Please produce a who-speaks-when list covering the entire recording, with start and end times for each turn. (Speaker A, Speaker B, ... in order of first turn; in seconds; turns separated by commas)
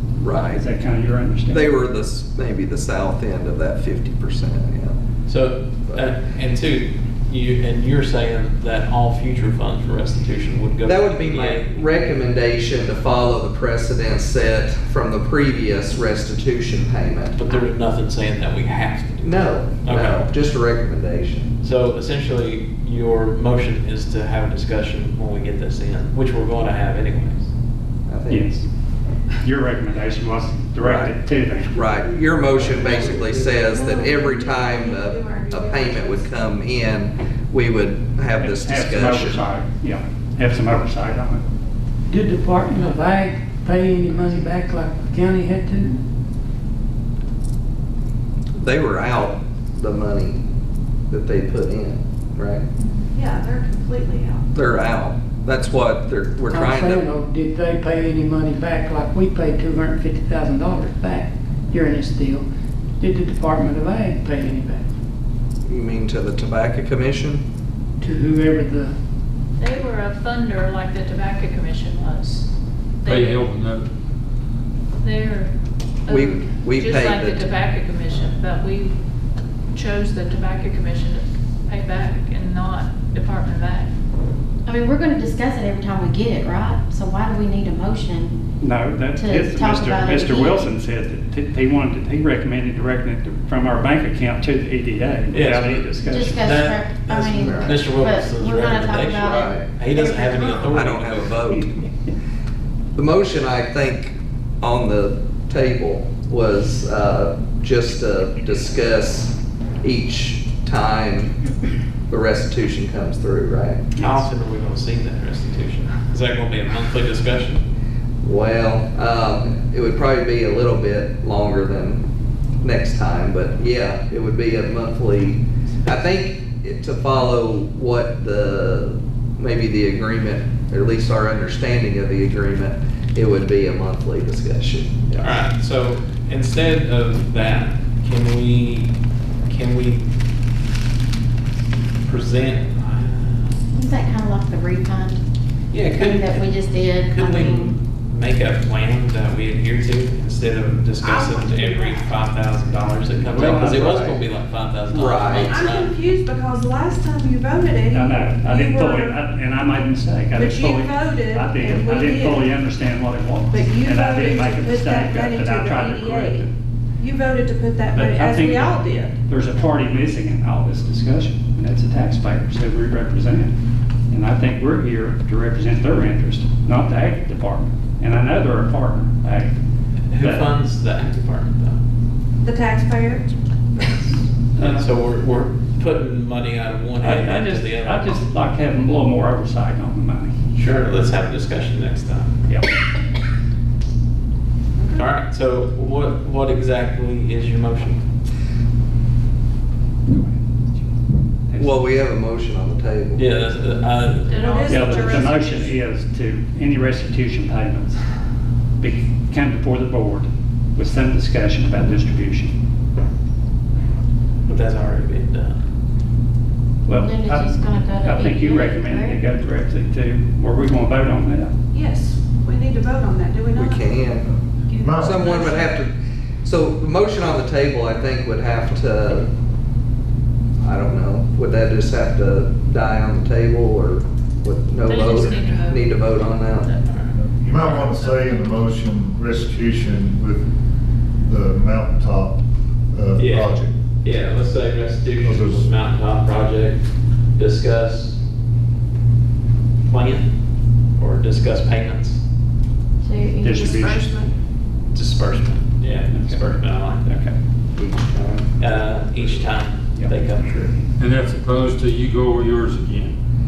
Speaker A: 0.2-0.6, Speaker B: 0.3-1.7, Speaker A: 1.5-5.0, Speaker C: 5.3-11.8, Speaker A: 5.9-6.2, Speaker A: 10.8-17.4, Speaker C: 17.3-20.3, Speaker A: 19.2-21.5, Speaker C: 21.6-27.5, Speaker A: 28.1-28.5, Speaker B: 28.3-28.7, Speaker B: 29.4-32.0, Speaker A: 30.8-31.1, Speaker A: 31.7-39.4, Speaker D: 32.6-36.3, Speaker B: 38.4-41.4, Speaker E: 42.1-46.0, Speaker A: 48.6-50.4, Speaker A: 51.1-52.6, Speaker F: 52.8-53.1, Speaker D: 53.1-54.5, Speaker A: 54.5-57.0, Speaker E: 56.5-62.5, Speaker E: 63.0-64.9, Speaker A: 65.7-67.4, Speaker E: 68.0-68.9, Speaker F: 69.6-72.5, Speaker F: 73.0-73.5, Speaker G: 73.0-73.9, Speaker F: 75.0-75.5, Speaker F: 76.1-79.0, Speaker A: 76.1-77.5, Speaker F: 79.7-83.9, Speaker H: 84.7-88.4, Speaker B: 88.6-96.5, Speaker H: 89.2-90.7, Speaker C: 95.3-101.8, Speaker H: 96.1-100.8, Speaker A: 97.4-97.8, Speaker A: 99.2-99.7, Speaker A: 100.7-101.7, Speaker A: 103.0-111.3, Speaker A: 112.1-113.8, Speaker C: 114.0-117.7, Speaker A: 118.2-122.0, Speaker A: 122.6-135.4, Speaker C: 135.2-138.9, Speaker C: 139.5-140.1, Speaker C: 142.1-143.6, Speaker H: 143.7-145.2, Speaker C: 145.7-155.9, Speaker H: 145.9-147.7, Speaker D: 151.0-152.0, Speaker B: 153.2-154.0, Speaker A: 153.4-154.2, Speaker A: 154.9-155.6, Speaker D: 155.4-159.2, Speaker B: 157.9-166.5, Speaker D: 160.3-162.5, Speaker D: 163.5-169.2, Speaker B: 167.9-173.5, Speaker B: 174.1-179.5, Speaker C: 180.1-181.8, Speaker B: 180.2-180.5, Speaker D: 182.4-183.2, Speaker C: 184.6-188.1, Speaker B: 184.6-184.9, Speaker B: 187.0-190.4, Speaker C: 190.5-192.3, Speaker D: 194.8-195.1, Speaker C: 194.9-198.0, Speaker B: 200.1-200.4, Speaker B: 201.5-201.9, Speaker A: 201.6-203.2, Speaker C: 203.2-204.7, Speaker F: 204.3-205.8, Speaker D: 204.4-205.4, Speaker B: 204.7-208.0, Speaker B: 208.8-212.6, Speaker C: 214.4-215.6, Speaker B: 216.8-217.5, Speaker H: 217.0-219.2, Speaker B: 218.0-221.5, Speaker D: 221.7-223.9, Speaker A: 223.6-224.3, Speaker I: 224.3-225.2, Speaker D: 224.7-225.7, Speaker A: 225.0-229.3, Speaker A: 230.6-236.7, Speaker F: 234.8-236.9, Speaker C: 236.8-238.6, Speaker I: 237.1-240.5, Speaker I: 241.2-243.8, Speaker C: 243.2-248.2, Speaker I: 245.2-245.7, Speaker C: 249.8-250.3, Speaker C: 251.0-252.2, Speaker H: 253.0-253.6, Speaker B: 253.4-254.0, Speaker D: 253.6-254.3, Speaker C: 254.9-257.1, Speaker B: 256.1-257.4, Speaker A: 257.8-259.5, Speaker C: 258.6-260.8, Speaker G: 261.0-263.1